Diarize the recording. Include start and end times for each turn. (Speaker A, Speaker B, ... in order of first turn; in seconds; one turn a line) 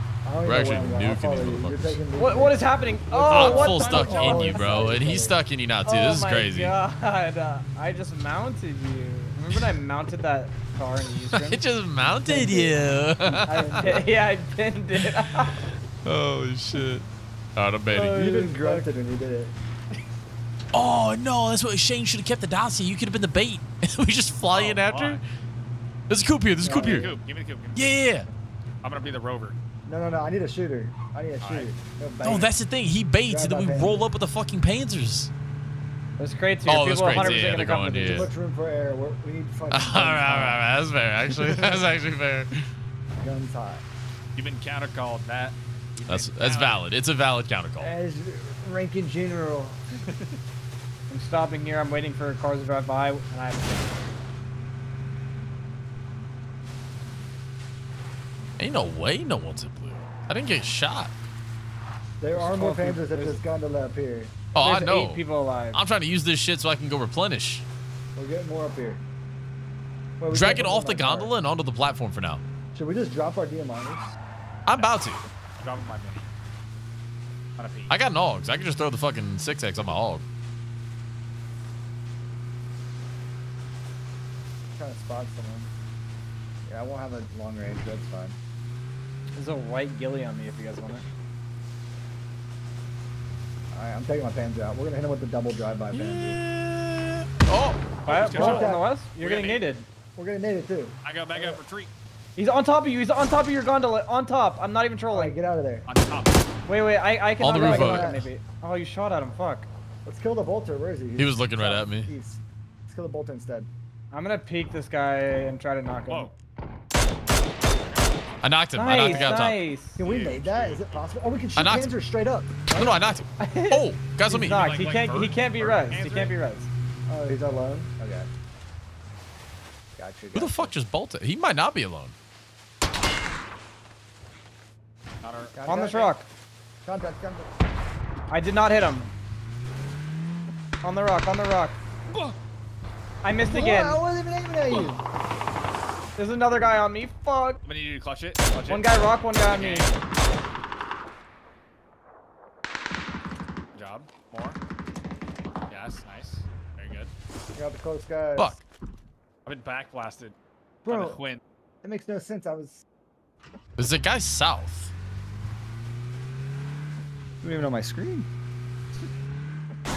Speaker A: 0.2-5.3
Speaker B: 0.4-2.0
Speaker C: 2.2-5.0
Speaker B: 3.3-6.7
Speaker C: 5.8-11.6
Speaker B: 11.3-14.0
Speaker A: 12.2-14.1
Speaker C: 13.4-15.7
Speaker B: 16.0-18.2
Speaker C: 17.9-18.9
Speaker A: 18.1-19.5
Speaker B: 20.7-25.2
Speaker D: 24.5-25.2
Speaker B: 26.1-27.1
Speaker A: 26.6-27.2
Speaker D: 26.7-27.9
Speaker B: 27.7-28.3
Speaker D: 28.8-29.6
Speaker A: 29.9-32.5
Speaker D: 31.4-31.7
Speaker B: 32.2-35.3
Speaker A: 33.2-34.0
Speaker C: 36.2-38.3
Speaker B: 36.6-38.3
Speaker A: 37.1-37.5
Speaker A: 38.0-40.6
Speaker B: 39.7-42.6
Speaker A: 43.2-43.8
Speaker D: 44.4-46.8
Speaker B: 46.0-47.9
Speaker A: 47.8-49.8
Speaker D: 50.1-50.3
Speaker C: 51.1-54.1
Speaker B: 58.6-61.1
Speaker A: 62.2-64.4
Speaker C: 62.3-63.4
Speaker B: 64.5-67.6
Speaker C: 64.5-65.8
Speaker A: 68.2-69.0
Speaker A: 70.2-71.3
Speaker B: 70.3-72.4
Speaker A: 72.7-74.2
Speaker B: 74.7-75.2
Speaker D: 74.7-76.3
Speaker D: 77.6-78.0
Speaker B: 77.9-80.2
Speaker A: 84.8-85.7
Speaker A: 86.7-88.4
Speaker C: 89.3-91.0
Speaker A: 93.7-96.4
Speaker B: 95.9-97.9
Speaker D: 98.0-99.7
Speaker C: 98.0-99.9
Speaker A: 98.3-98.9
Speaker A: 100.2-101.6
Speaker D: 101.0-101.9
Speaker C: 102.4-105.3
Speaker A: 105.1-105.9
Speaker D: 105.8-106.5
Speaker C: 106.7-109.7
Speaker B: 107.4-108.3
Speaker A: 107.5-108.2
Speaker A: 110.0-113.7
Speaker B: 111.2-112.1
Speaker C: 114.1-116.3
Speaker D: 116.1-116.3
Speaker D: 117.8-118.1
Speaker B: 118.4-119.6
Speaker C: 118.7-120.0
Speaker D: 118.9-119.3
Speaker A: 120.0-123.0
Speaker D: 120.0-121.0
Speaker B: 121.6-121.9
Speaker B: 122.7-124.9
Speaker C: 123.4-126.7
Speaker D: 124.5-126.3
Speaker A: 127.1-128.3
Speaker A: 130.0-130.7
Speaker B: 130.3-132.1
Speaker D: 135.2-136.1
Speaker A: 135.5-136.1
Speaker C: 135.6-136.3
Speaker A: 136.8-137.5
Speaker C: 138.3-139.1
Speaker C: 140.8-141.8
Speaker D: 142.1-142.4
Speaker C: 143.2-144.0
Speaker A: 143.4-145.0
Speaker C: 146.2-147.6
Speaker D: 147.6-150.0
Speaker C: 148.7-149.9
Speaker D: 153.7-154.6
Speaker D: 155.7-157.1
Speaker A: 157.5-158.6
Speaker B: 158.4-158.6
Speaker D: 159.4-160.3
Speaker A: 160.8-161.2
Speaker D: 160.8-161.4
Speaker A: 161.8-162.8
Speaker B: 163.8-164.9
Speaker A: 167.4-168.3